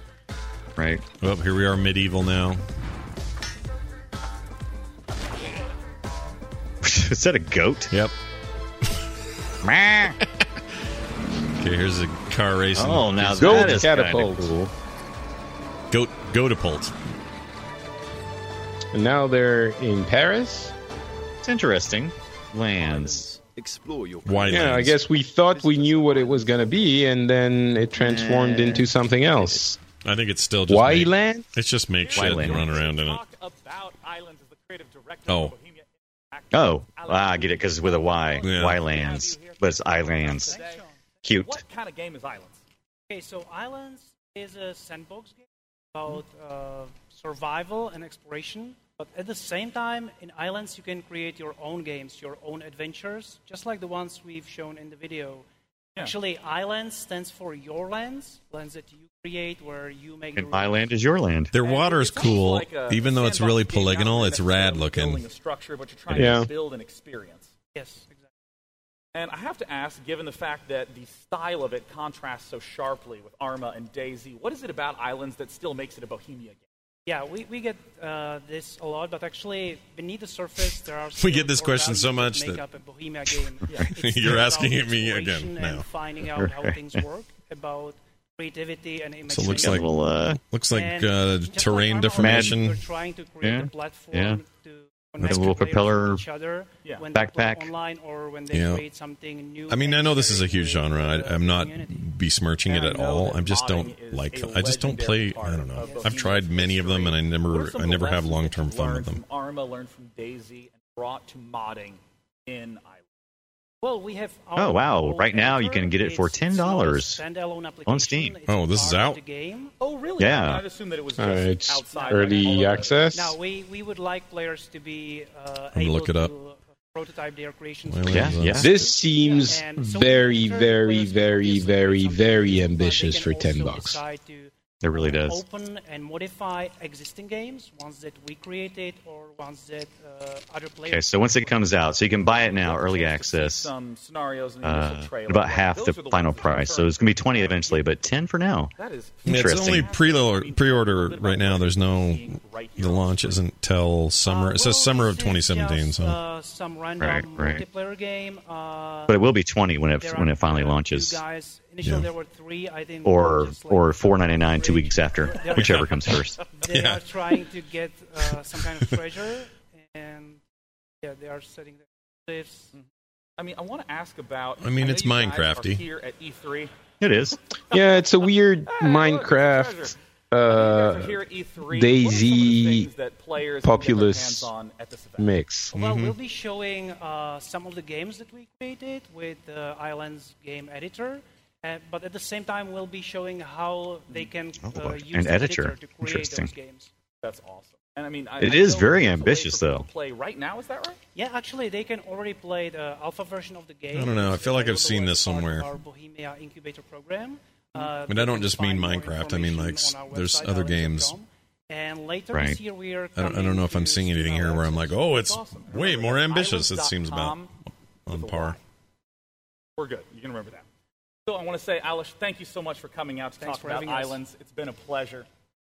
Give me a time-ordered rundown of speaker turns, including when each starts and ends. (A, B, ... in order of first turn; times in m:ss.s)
0:00.8-0:01.0 A
0:01.2-0:02.6 B
0:06.8-0:07.9 A
0:09.6-0:10.2 A
0:11.6-0:13.8 B
0:12.7-0:14.7 A
0:13.3-0:14.5 C
0:15.9-0:16.9 B
0:18.9-0:20.7 C
0:21.4-0:23.2 A
0:22.8-0:26.9 D
0:24.2-0:25.0 B
0:24.5-0:29.8 C
0:28.0-0:28.8 A
0:30.0-0:33.2 B
0:30.7-0:31.4 C
0:32.0-0:42.6 E
0:32.1-0:32.8 A
0:35.3-0:35.5 B
0:36.5-0:40.5 A
0:38.4-0:38.8 B
0:40.4-0:40.9 F
0:41.2-0:41.6 A
0:43.1-0:55.4 F
0:56.0-1:00.9 F
1:00.4-1:01.5 A
1:01.5-1:05.2 B
1:01.6-1:07.5 E
1:06.1-1:06.5 C
1:07.7-1:08.2 F
1:09.1-1:16.6 E
1:17.1-1:30.0 F
1:21.2-1:22.6 B
1:23.7-1:25.8 B
1:26.3-1:27.0 A
1:29.3-1:32.8 B
1:29.5-1:30.4 A
1:30.7-1:42.1 F
1:32.2-1:32.6 A
1:33.4-1:34.4 A
1:35.2-1:36.2 A
1:37.1-1:37.7 A
1:38.5-1:38.8 B
1:39.7-1:49.2 B
1:42.6-1:53.0 E
1:45.8-1:46.2 F
1:53.8-1:59.7 F
1:54.6-1:57.2 A
1:57.8-1:58.4 A
1:58.4-1:59.2 B
1:59.8-2:03.1 E
2:00.2-2:00.6 A
2:01.2-2:03.4 C
2:01.9-2:21.7 F
2:05.7-2:06.3 B
2:07.8-2:08.7 B
2:08.1-2:08.7 A
2:08.5-2:14.0 C
2:14.8-2:15.4 A
2:20.9-2:23.7 A
2:22.3-2:27.8 E
2:24.6-2:28.7 A
2:28.8-2:33.4 E
2:29.2-2:29.9 A
2:29.2-2:36.2 B
2:34.2-2:39.2 F
2:37.0-2:37.6 A
2:39.1-2:41.2 A
2:40.0-2:46.0 F
2:41.8-2:42.1 B
2:43.0-2:46.4 A
2:45.6-2:45.8 B
2:46.5-2:50.4 F
2:46.7-2:47.0 B
2:51.0-2:52.7 F
2:53.4-2:56.7 E
2:54.6-2:55.8 B
2:57.0-2:57.4 A
2:57.7-3:02.9 C
2:58.6-3:05.4 E
3:03.6-3:04.5 C
3:05.2-3:05.7 C
3:05.7-3:06.2 B
3:05.7-3:16.9 F
3:14.6-3:16.5 A
3:17.2-3:21.0 E
3:18.4-3:19.8 A
3:21.1-3:34.9 F
3:23.9-3:25.7 B
3:28.0-3:31.1 B
3:32.3-3:32.6 A
3:33.1-3:37.4 B
3:34.4-3:37.5 E
3:38.1-3:38.6 B
3:38.1-3:38.6 E
3:39.8-3:40.7 E
3:41.3-3:45.2 E
3:43.4-3:44.2 F